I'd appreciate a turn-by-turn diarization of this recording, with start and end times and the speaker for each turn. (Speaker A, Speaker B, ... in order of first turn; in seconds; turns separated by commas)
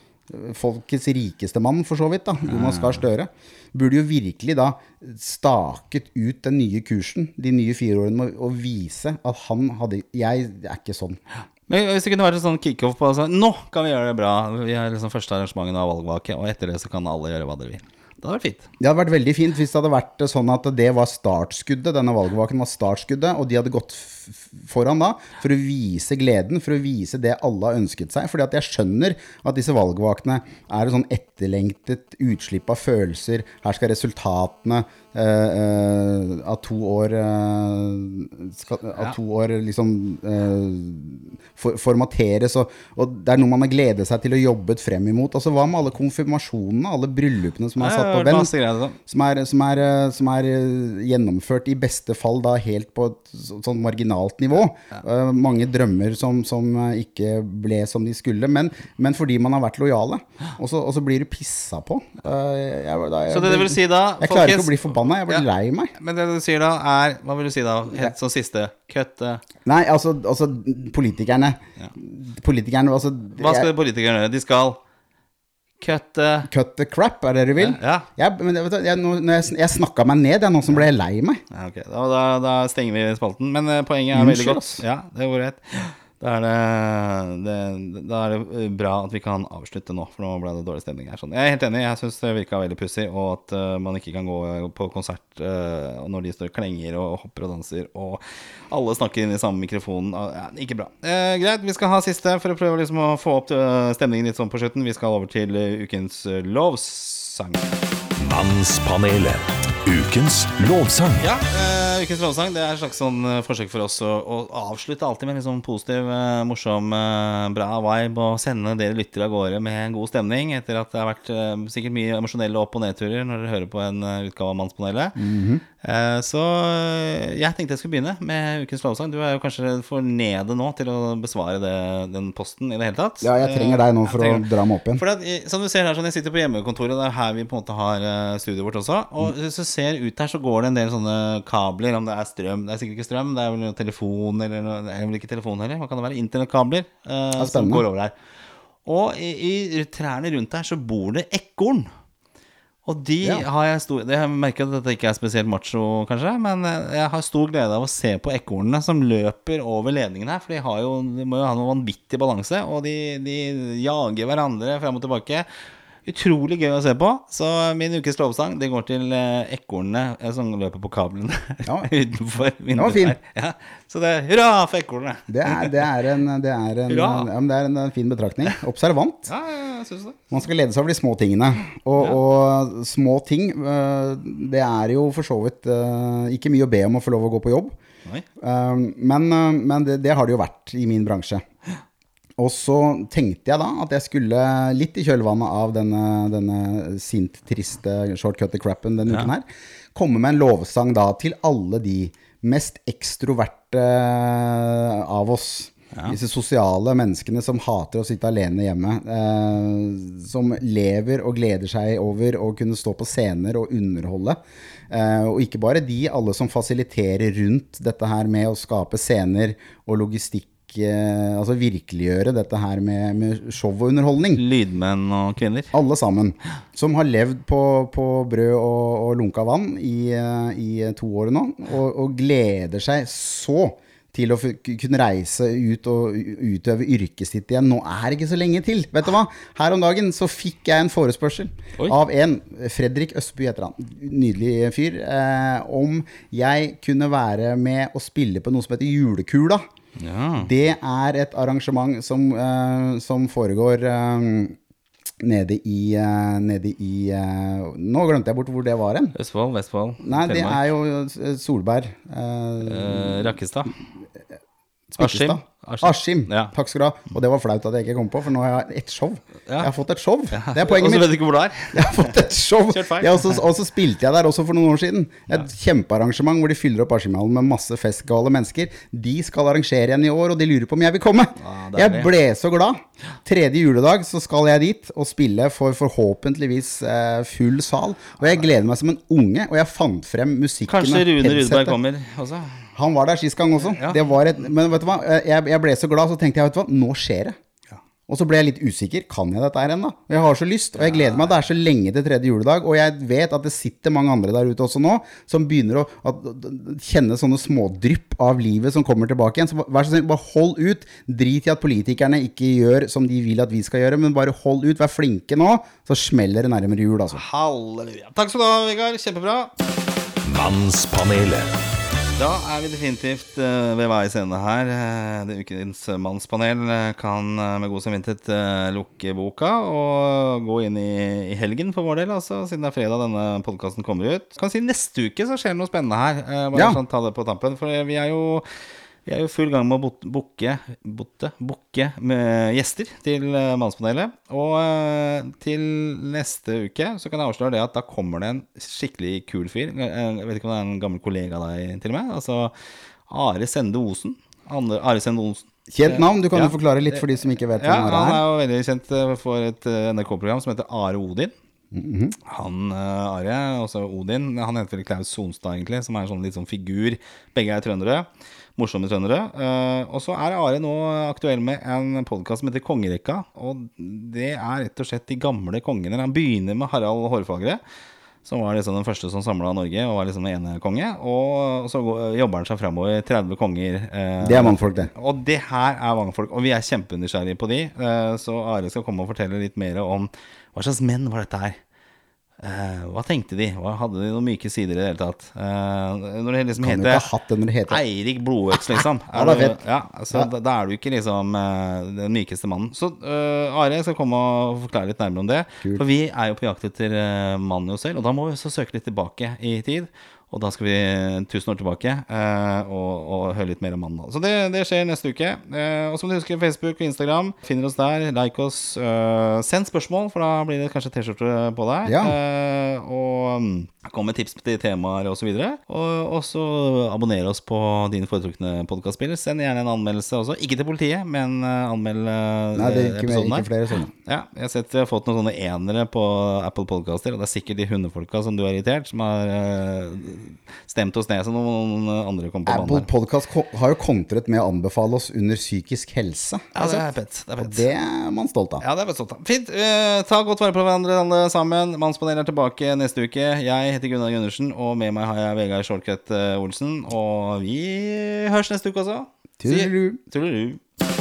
Speaker A: 0.3-11.2, Speaker B: 2.5-3.0, Speaker B: 11.7-18.7, Speaker A: 18.8-65.9, Speaker B: 47.8-49.0, Speaker B: 63.3-65.5, Speaker B: 66.0-69.4, Speaker A: 69.7-73.7, Speaker B: 73.4-74.8, Speaker B: 75.8-76.5, Speaker A: 76.5-81.4, Speaker B: 77.6-78.1, Speaker B: 81.5-107.7, Speaker A: 84.1-84.8, Speaker C: 108.2-111.2, Speaker B: 111.2-125.2, Speaker A: 125.2-125.6, Speaker B: 125.8-148.2, Speaker A: 133.2-135.0, Speaker A: 147.4-147.8, Speaker B: 148.8-151.9, Speaker B: 152.8-165.5, Speaker B: 166.1-175.7, Speaker A: 171.7-171.9, Speaker A: 172.8-173.2, Speaker A: 175.3-179.3, Speaker B: 176.9-177.3, Speaker B: 179.3-180.2, Speaker A: 180.3-187.8, Speaker A: 188.4-191.4, Speaker A: 192.4-214.4, Speaker A: 214.9-224.4, Speaker B: 224.3-225.7, Speaker A: 225.7-249.6, Speaker B: 250.0-250.5, Speaker A: 250.4-254.6, Speaker A: 255.2-259.1, Speaker B: 259.1-260.7, Speaker A: 260.0-263.4, Speaker B: 262.6-263.8, Speaker A: 264.9-271.1, Speaker B: 265.0-266.5, Speaker B: 270.3-272.2, Speaker A: 271.7-291.8, Speaker B: 272.7-273.4, Speaker B: 281.4-282.1, Speaker B: 290.7-292.7, Speaker A: 292.8-297.4, Speaker B: 293.6-294.1, Speaker A: 298.1-317.2, Speaker B: 300.8-301.3, Speaker B: 317.1-319.5, Speaker C: 320.2-321.6, Speaker B: 322.2-338.5, Speaker A: 336.5-336.8, Speaker B: 339.1-352.5, Speaker B: 353.1-361.3, Speaker A: 355.7-358.2, Speaker A: 361.7-362.2, Speaker B: 362.3-377.6, Speaker B: 378.2-391.6, Speaker A: 384.2-384.9, Speaker B: 392.4-397.0, Speaker A: 396.6-397.8, Speaker B: 397.7-433.5, Speaker A: 399.1-399.6, Speaker A: 421.9-422.1, Speaker A: 432.6-433.9, Speaker B: 434.0-442.9, Speaker A: 442.5-446.9, Speaker B: 446.6-447.7, Speaker A: 447.4-448.6, Speaker B: 448.6-460.6, Speaker A: 459.4-460.0